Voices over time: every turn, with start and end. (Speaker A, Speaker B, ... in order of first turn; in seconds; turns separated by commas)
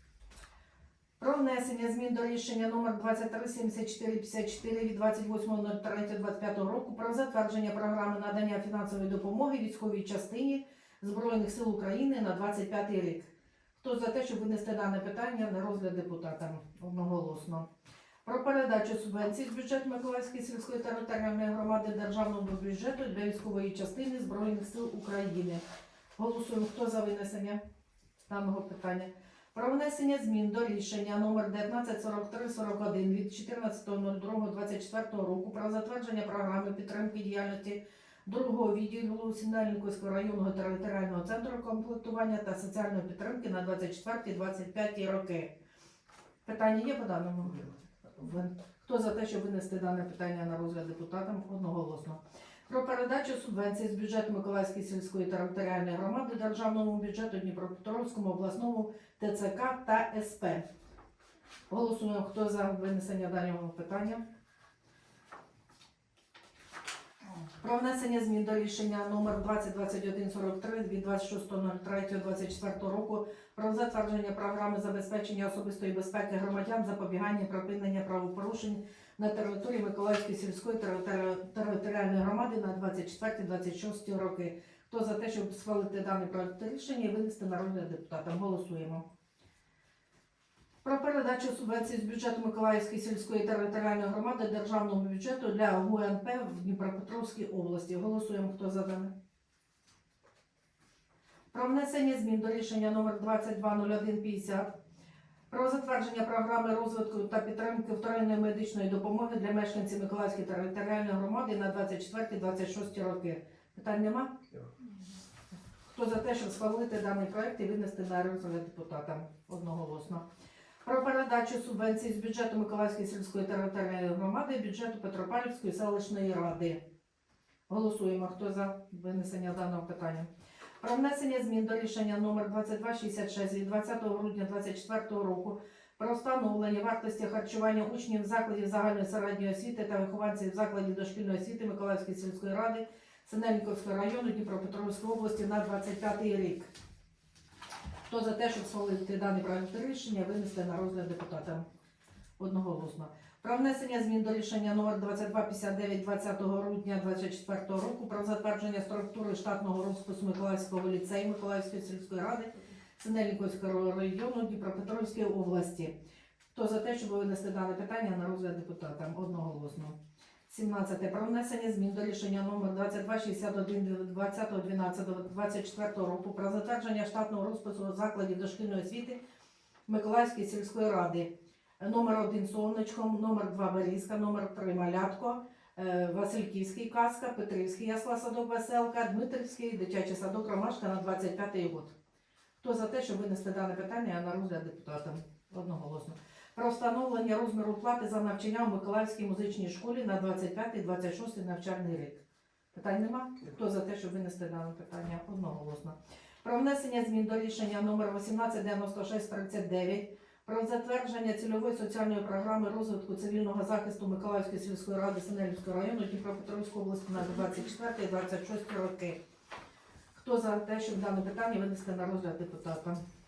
Speaker A: 1.2-17.7, Speaker A: 18.2-25.6, Speaker A: 26.2-27.6, Speaker A: 28.3-45.5, Speaker A: 46.4-60.6, Speaker A: 61.7-64.2, Speaker A: 67.6-89.0, Speaker A: 90.8-99.1, Speaker A: 101.5-104.7, Speaker A: 105.5-114.4, Speaker A: 115.8-120.2, Speaker A: 120.8-126.8, Speaker A: 127.7-130.3, Speaker A: 130.8-146.7, Speaker A: 148.1-151.7, Speaker A: 152.4-165.9, Speaker A: 166.5-170.0, Speaker A: 170.5-179.2, Speaker A: 179.9-191.9, Speaker A: 192.6-219.2, Speaker A: 220.1-223.0